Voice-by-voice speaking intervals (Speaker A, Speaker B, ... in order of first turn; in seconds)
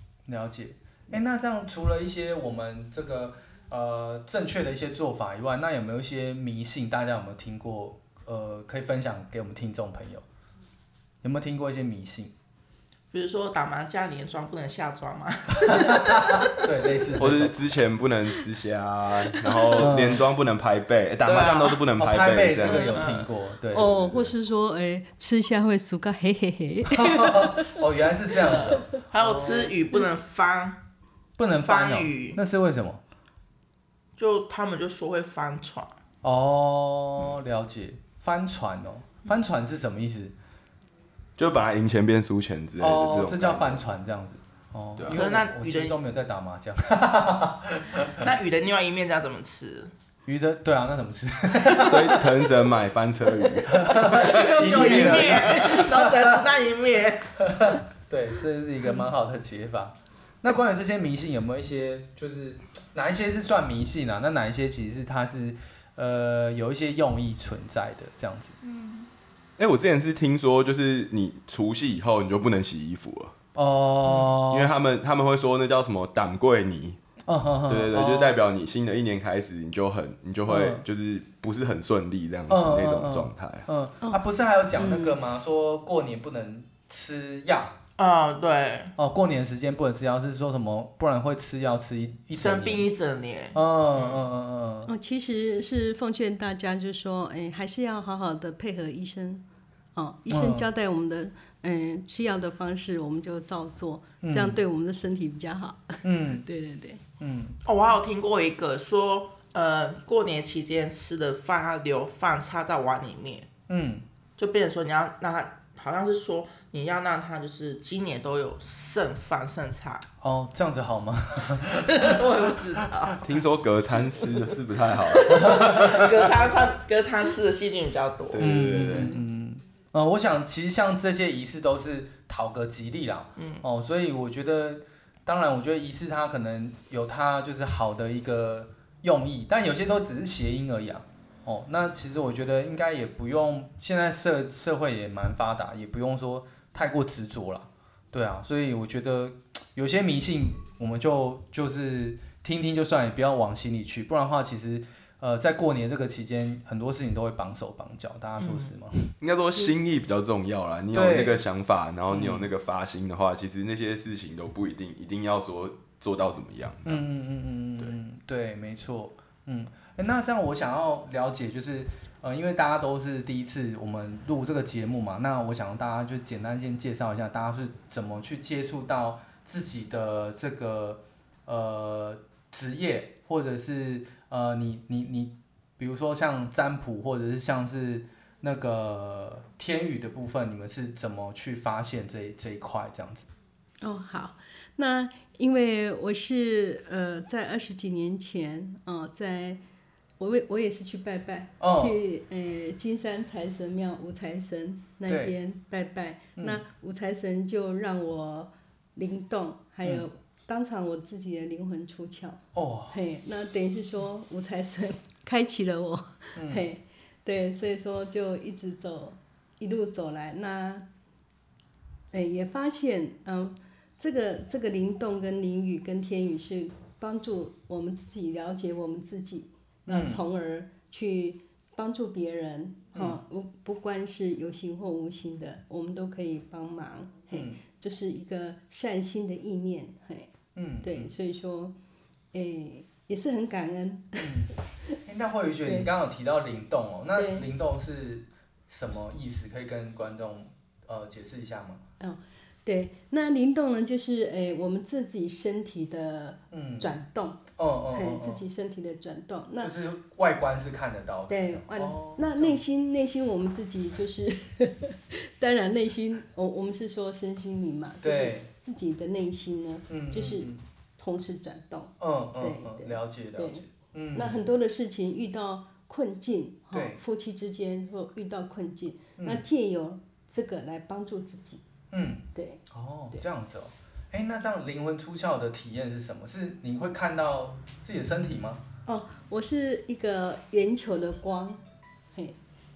Speaker A: 0.3-10.2, 11.2-12.3, 15.6-17.6, 19.8-20.2, 21.9-24.0, 26.9-29.7, 31.4-33.0, 36.2-40.3, 42.8-48.2, 50.2-52.3, 53.7-56.3, 57.4-68.5, 73.5-74.7, 77.3-78.4, 80.5-80.8, 82.5-87.8, 89.0-92.9, 93.5-94.9, 100.3-100.7, 104.2-104.6, 106.0-106.4, 107.2-107.6, 113.7-114.0, 120.2-122.2, 128.4-159.0, 160.9-161.4, 162.1-162.5, 166.8-193.3, 201.6-202.0, 205.1-205.3, 206.4-206.6, 212.5-213.0, 216.3-216.6, 229.8-230.2, 232.9-233.2, 237.3-237.6, 240.5-241.1, 244.2-244.5, 245.0-251.8, 256.5-256.9, 257.6-258.4, 259.6-262.6, 268.0-268.5, 269.9-270.6, 272.0-274.4, 276.7-277.0, 279.2-279.4, 281.9-288.6
Speaker B: 13.1-16.5, 19.4-19.8, 21.2-21.8, 22.9-23.3, 29.1-30.8, 31.6-32.4, 34.2-35.9, 45.1-46.0, 48.2-49.9, 54.1-57.3, 68.6-69.1, 74.0-74.3, 88.0-88.9, 92.3-94.2, 107.7-113.5, 114.4-120.0, 121.9-123.2, 125.0-128.4, 133.4-133.6
Speaker C: 17.2-23.0, 23.9-24.3, 41.4-43.8, 45.0-45.2, 51.8-56.0, 69.6-73.3, 74.5-77.0, 77.7-83.7, 123.2-126.5, 128.3-129.1, 159.2-167.0
Speaker D: 22.7-22.9, 23.7-27.7, 84.8-85.2, 94.8-99.4, 99.9-107.0, 193.8-199.6, 200.2-220.9, 222.1-240.3, 240.8-241.8, 242.3-244.3, 247.1-247.5, 252.0-259.7, 261.3-281.6, 282.3-282.6, 288.9-291.6